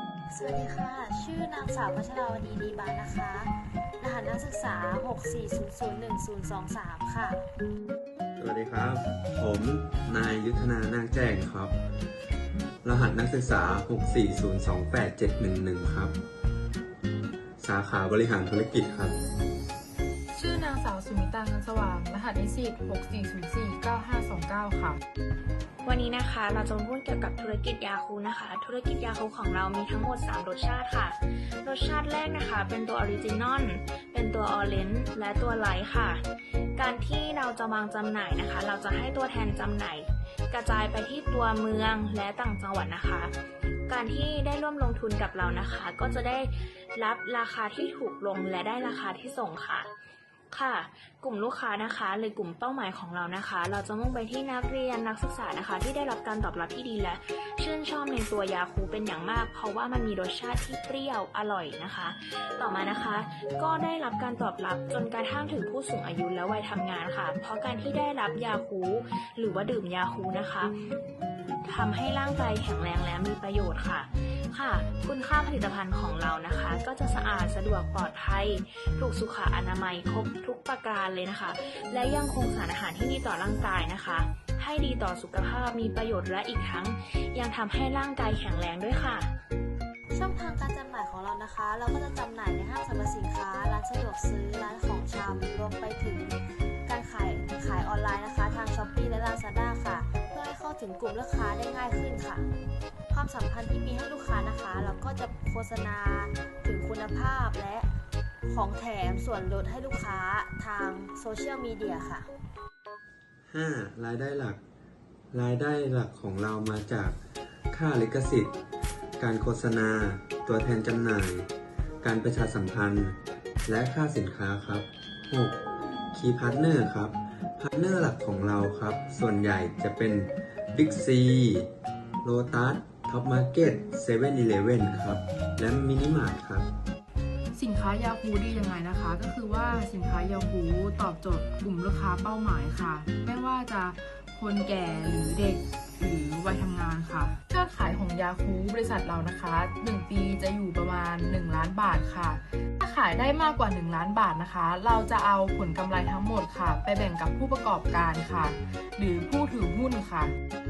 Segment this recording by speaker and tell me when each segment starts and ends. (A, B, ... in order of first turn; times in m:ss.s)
0:00.3-0:07.4 A
0:08.4-0:11.7 B
0:12.8-0:16.2 B
0:17.6-0:19.2 B
0:20.3-0:25.0 C
0:25.8-0:36.2 D
0:36.8-0:43.3 D
0:43.9-0:49.9 D
0:50.5-1:10.7 D
1:11.6-1:29.3 D
1:30.1-1:42.5 A
1:43.1-1:47.9 A
1:48.5-1:52.3 A
1:53.5-1:54.6 B
1:55.3-1:57.2 B
1:57.7-1:58.5 B
1:59.2-2:01.5 B
2:02.0-2:05.6 B
2:06.1-2:11.7 B
2:12.2-2:16.7 B
2:17.5-2:40.3 C